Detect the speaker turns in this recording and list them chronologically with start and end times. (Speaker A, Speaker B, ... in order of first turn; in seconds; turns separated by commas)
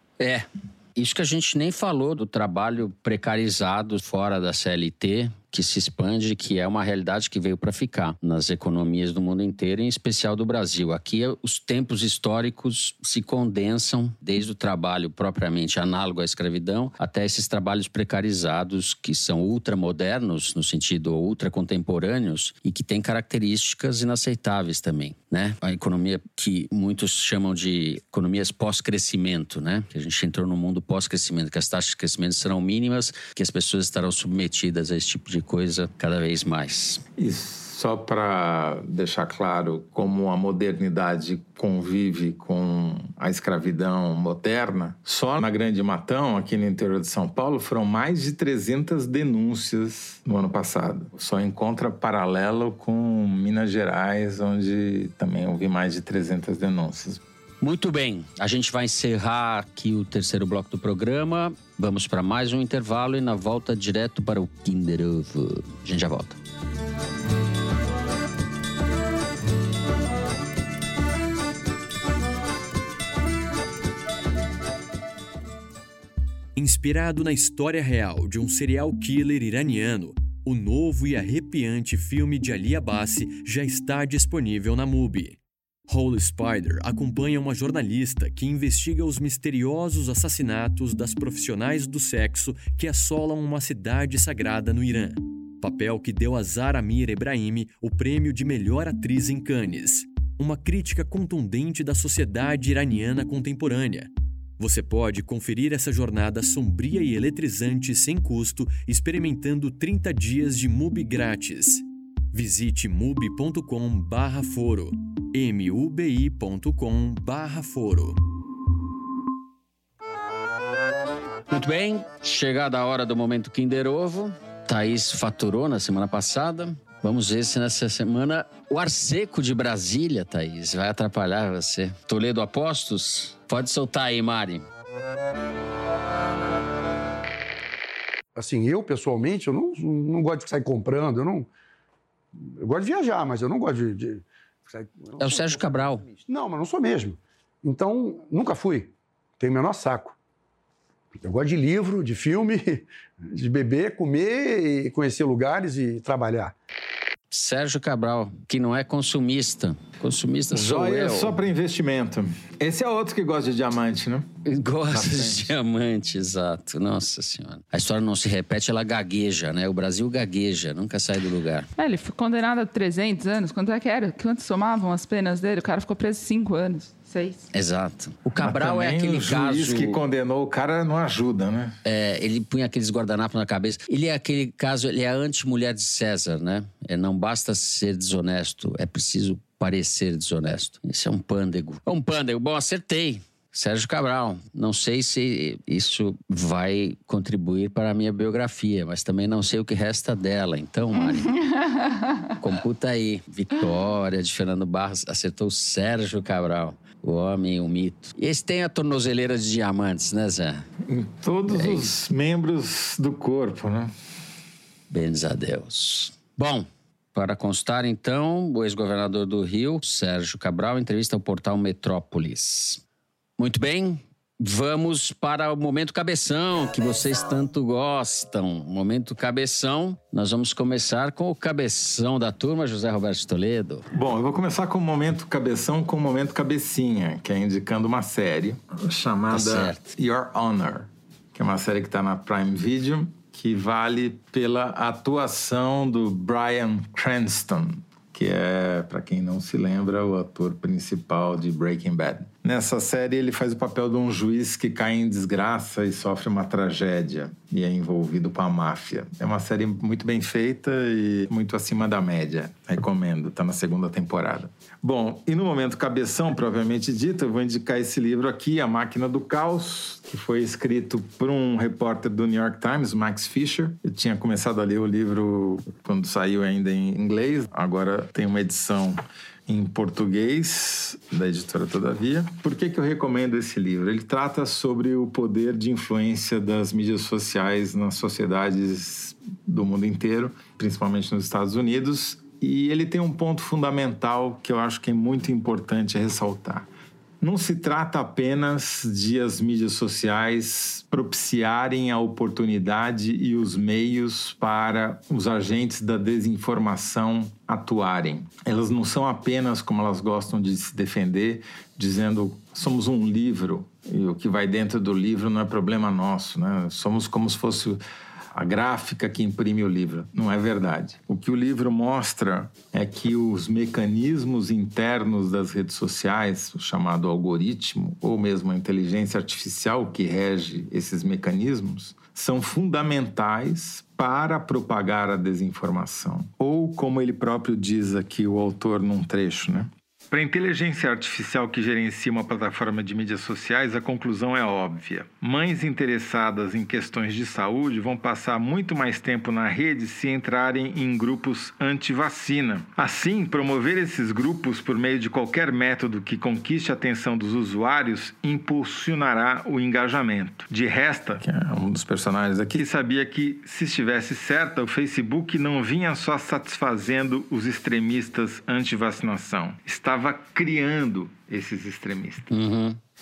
Speaker A: 0.2-37.0, Speaker B: 37.2-57.2, Speaker A: 57.6-66.4, Speaker C: 76.5-118.2, Speaker A: 121.5-134.7, Speaker D: 138.3-141.5, Speaker D: 142.6-150.2, Speaker A: 145.2-146.1, Speaker D: 151.2-156.5, Speaker A: 157.3-161.4, Speaker B: 160.5-164.3, Speaker A: 164.4-171.7, Speaker B: 164.9-165.5, Speaker E: 171.8-177.5, Speaker A: 177.5-180.0, Speaker B: 178.4-181.8, Speaker A: 181.8-201.3, Speaker A: 202.4-210.7, Speaker B: 210.8-213.9, Speaker A: 211.5-211.9, Speaker A: 214.9-222.8, Speaker A: 223.4-233.8, Speaker B: 233.9-296.7, Speaker A: 239.3-239.8, Speaker B: 297.2-317.8, Speaker B: 318.3-372.3, Speaker A: 372.3-372.8